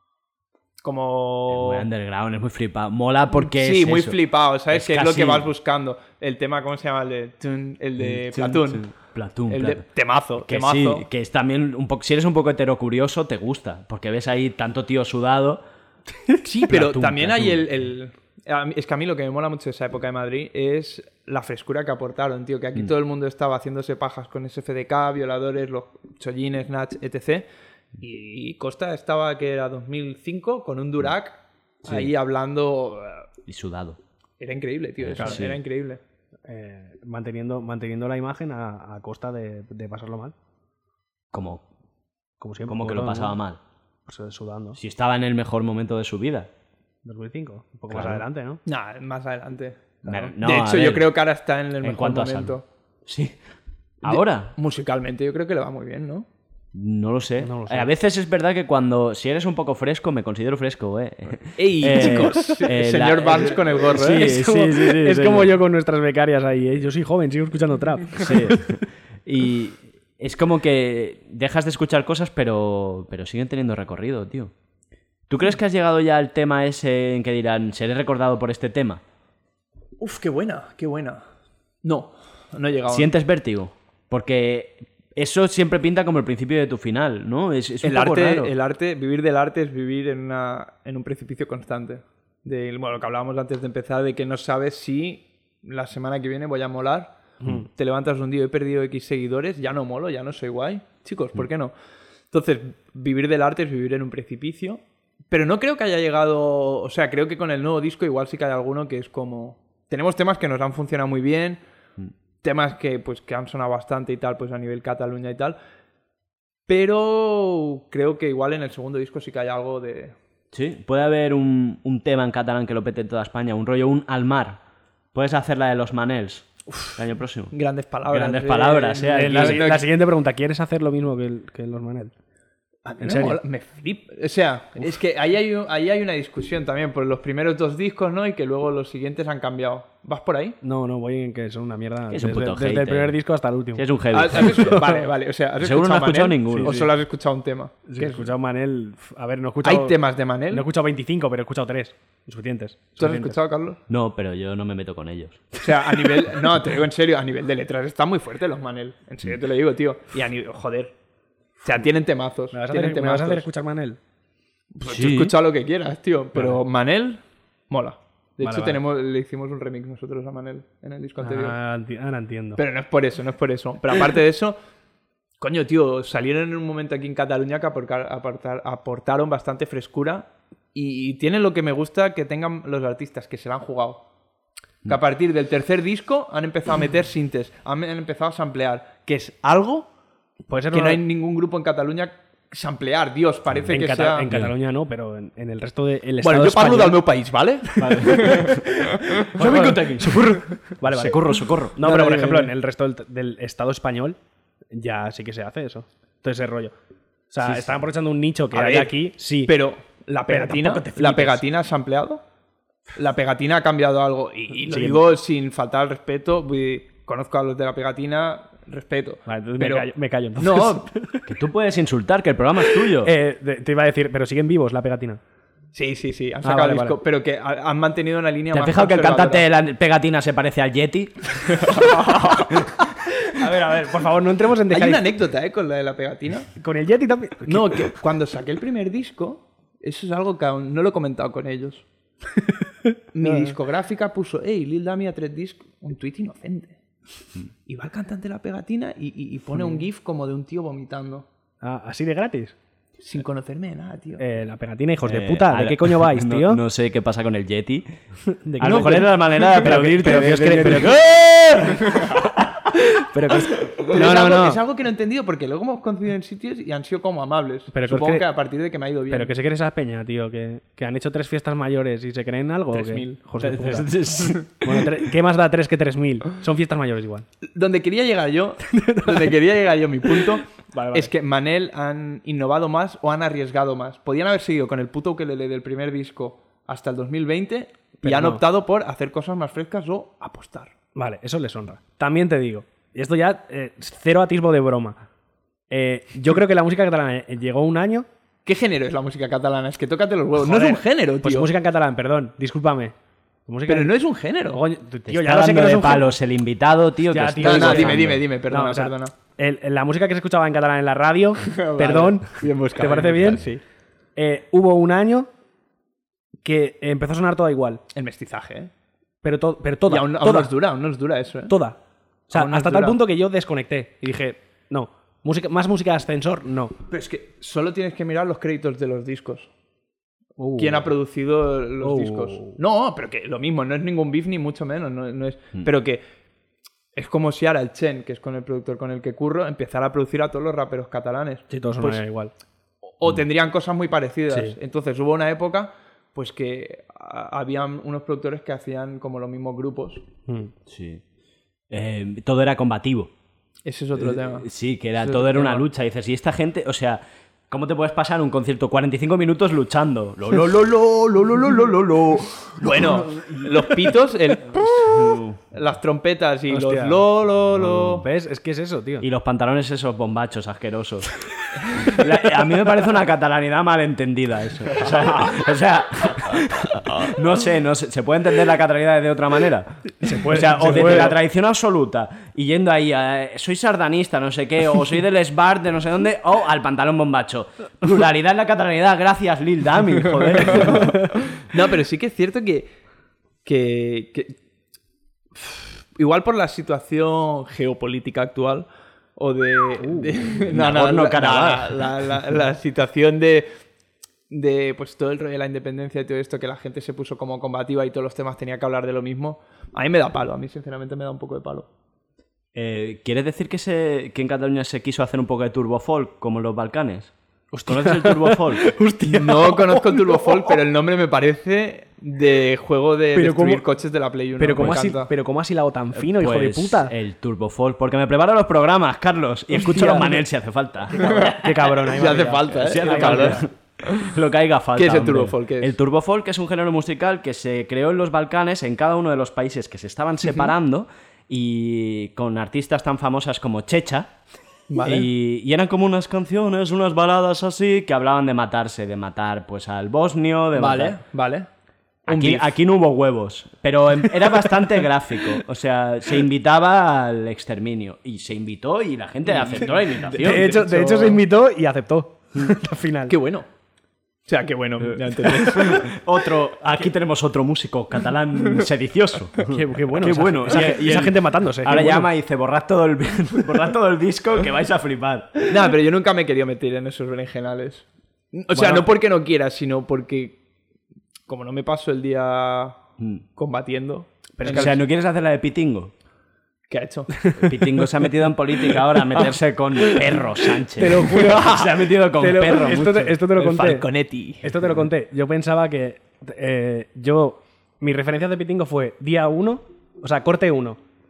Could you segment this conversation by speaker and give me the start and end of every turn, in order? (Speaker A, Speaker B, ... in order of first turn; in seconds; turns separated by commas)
Speaker A: 0.8-1.9, Speaker B: 1.5-5.5, Speaker A: 3.4-9.0, Speaker B: 8.0-9.8, Speaker A: 9.5-11.1, Speaker B: 10.4-15.6, Speaker A: 16.4-27.4, Speaker B: 16.6-17.8, Speaker A: 28.0-33.2, Speaker B: 31.8-32.1, Speaker B: 33.5-34.0, Speaker A: 34.4-36.0, Speaker B: 35.0-35.6, Speaker C: 35.1-35.4, Speaker C: 36.5-40.3, Speaker B: 41.3-41.6, Speaker C: 42.4-43.4, Speaker B: 42.7-43.6, Speaker C: 44.1-44.8, Speaker B: 44.8-46.5, Speaker C: 47.0-48.6, Speaker B: 47.9-48.2, Speaker A: 48.6-52.6, Speaker B: 50.0-51.1, Speaker B: 51.8-53.4, Speaker B: 54.0-54.5, Speaker A: 54.0-56.3, Speaker B: 56.7-65.5, Speaker C: 57.4-57.9, Speaker A: 61.5-64.3, Speaker C: 63.9-68.6, Speaker B: 68.2-74.5, Speaker B: 75.3-79.0, Speaker A: 80.0-81.2, Speaker A: 81.8-83.1, Speaker B: 82.9-88.5, Speaker A: 87.8-101.7, Speaker A: 102.3-111.6, Speaker A: 112.4-115.6, Speaker A: 116.7-120.1, Speaker B: 120.5-124.6, Speaker B: 125.1-127.5, Speaker A: 127.5-129.9, Speaker B: 128.1-129.6, Speaker C: 129.1-132.1, Speaker A: 132.8-140.6, Speaker C: 133.0-133.4, Speaker C: 140.6-144.9, Speaker B: 142.1-143.2, Speaker B: 143.7-144.8, Speaker A: 144.1-148.3, Speaker B: 145.6-146.8, Speaker C: 146.5-146.9, Speaker C: 147.9-149.9, Speaker A: 149.6-150.6, Speaker C: 150.5-153.4, Speaker A: 153.0-153.8, Speaker B: 153.9-155.4, Speaker A: 155.6-160.9, Speaker A: 161.6-163.4, Speaker C: 162.5-164.0, Speaker A: 164.7-171.6, Speaker B: 164.8-165.3, Speaker C: 168.4-168.8, Speaker C: 171.2-172.6, Speaker A: 172.6-174.6, Speaker A: 175.4-184.0, Speaker A: 184.8-189.9, Speaker C: 190.5-191.0, Speaker A: 190.7-194.3, Speaker C: 193.7-197.0, Speaker B: 194.3-194.5, Speaker A: 196.2-198.6, Speaker B: 197.8-198.6, Speaker C: 198.1-201.2, Speaker A: 199.2-199.8, Speaker B: 199.4-201.8, Speaker C: 201.7-204.2, Speaker A: 201.8-202.5, Speaker C: 204.7-206.7, Speaker C: 207.3-209.5, Speaker A: 208.5-212.2, Speaker C: 210.3-211.4, Speaker A: 212.9-220.9, Speaker C: 214.6-215.0, Speaker C: 219.3-221.2, Speaker B: 221.3-223.1, Speaker C: 223.0-225.2, Speaker A: 225.7-229.4, Speaker C: 226.4-227.0, Speaker B: 228.5-231.7, Speaker C: 232.1-232.5, Speaker C: 233.3-235.0, Speaker A: 234.7-236.5, Speaker C: 236.6-237.9, Speaker A: 237.4-241.8, Speaker A: 243.1-246.8, Speaker C: 243.2-243.5, Speaker A: 247.7-251.2, Speaker C: 251.6-252.5, Speaker A: 253.0-254.2, Speaker C: 254.2-256.6, Speaker B: 255.0-258.0, Speaker C: 258.4-260.9, Speaker B: 258.6-262.3, Speaker C: 263.1-264.6, Speaker A: 263.8-269.3, Speaker C: 267.7-268.2, Speaker C: 269.1-277.2, Speaker A: 272.7-274.8, Speaker A: 277.4-290.7, Speaker C: 278.7-279.3, Speaker C: 280.7-281.1, Speaker C: 288.0-288.4, Speaker C: 290.9-295.0, Speaker C: 295.7-298.1, Speaker A: 298.4-301.5, Speaker C: 300.4-302.9, Speaker C: 303.5-303.9, Speaker A: 303.7-304.6, Speaker C: 304.5-306.1, Speaker B: 305.1-308.2, Speaker C: 307.1-313.4, Speaker A: 307.4-309.1, Speaker A: 311.5-313.6, Speaker C: 314.1-315.3, Speaker C: 316.4-317.8, Speaker A: 317.9-318.7, Speaker C: 319.2-320.5, Speaker A: 319.9-321.6, Speaker C: 321.5-321.8, Speaker C: 322.3-326.7, Speaker A: 322.3-323.0, Speaker A: 326.9-329.5, Speaker C: 330.4-330.9, Speaker A: 330.6-336.0, Speaker C: 331.8-332.6, Speaker A: 336.9-342.0, Speaker C: 341.5-342.3, Speaker A: 342.9-350.0, Speaker C: 344.3-344.5, Speaker B: 350.7-351.0, Speaker B: 351.7-353.1, Speaker A: 353.6-354.5, Speaker B: 353.9-363.7, Speaker A: 355.0-355.6, Speaker A: 362.6-368.1, Speaker B: 364.5-365.4, Speaker C: 366.5-367.0, Speaker B: 367.6-368.0, Speaker C: 367.9-369.1, Speaker B: 369.0-371.2, Speaker B: 371.8-391.1, Speaker C: 380.0-381.1, Speaker A: 391.3-392.7, Speaker A: 393.4-394.3, Speaker A: 395.4-403.5, Speaker C: 399.8-400.1, Speaker B: 400.5-402.1, Speaker A: 404.3-411.7, Speaker B: 412.5-417.1, Speaker C: 417.5-420.5, Speaker B: 417.6-418.8, Speaker A: 419.1-425.1, Speaker C: 423.1-423.6, Speaker C: 424.4-426.9, Speaker B: 425.9-431.2, Speaker C: 429.6-430.2, Speaker C: 430.9-433.4, Speaker A: 431.0-434.1, Speaker B: 432.5-444.1, Speaker A: 434.7-435.7, Speaker A: 440.3-440.5, Speaker A: 444.7-445.1, Speaker B: 444.8-451.0, Speaker A: 450.6-451.5, Speaker A: 452.1-452.5, Speaker B: 452.1-460.6, Speaker A: 459.5-461.2, Speaker C: 460.2-463.1, Speaker A: 463.1-463.5, Speaker A: 464.2-466.0, Speaker B: 465.3-475.5, Speaker C: 469.5-472.1, Speaker A: 475.5-480.4, Speaker C: 478.5-478.9, Speaker A: 481.3-482.8, Speaker A: 483.4-484.8, Speaker C: 484.4-484.8, Speaker B: 484.5-485.9, Speaker A: 486.7-487.5, Speaker B: 487.4-493.2, Speaker C: 490.8-493.9, Speaker A: 491.0-491.6, Speaker A: 493.4-494.5, Speaker C: 494.4-500.8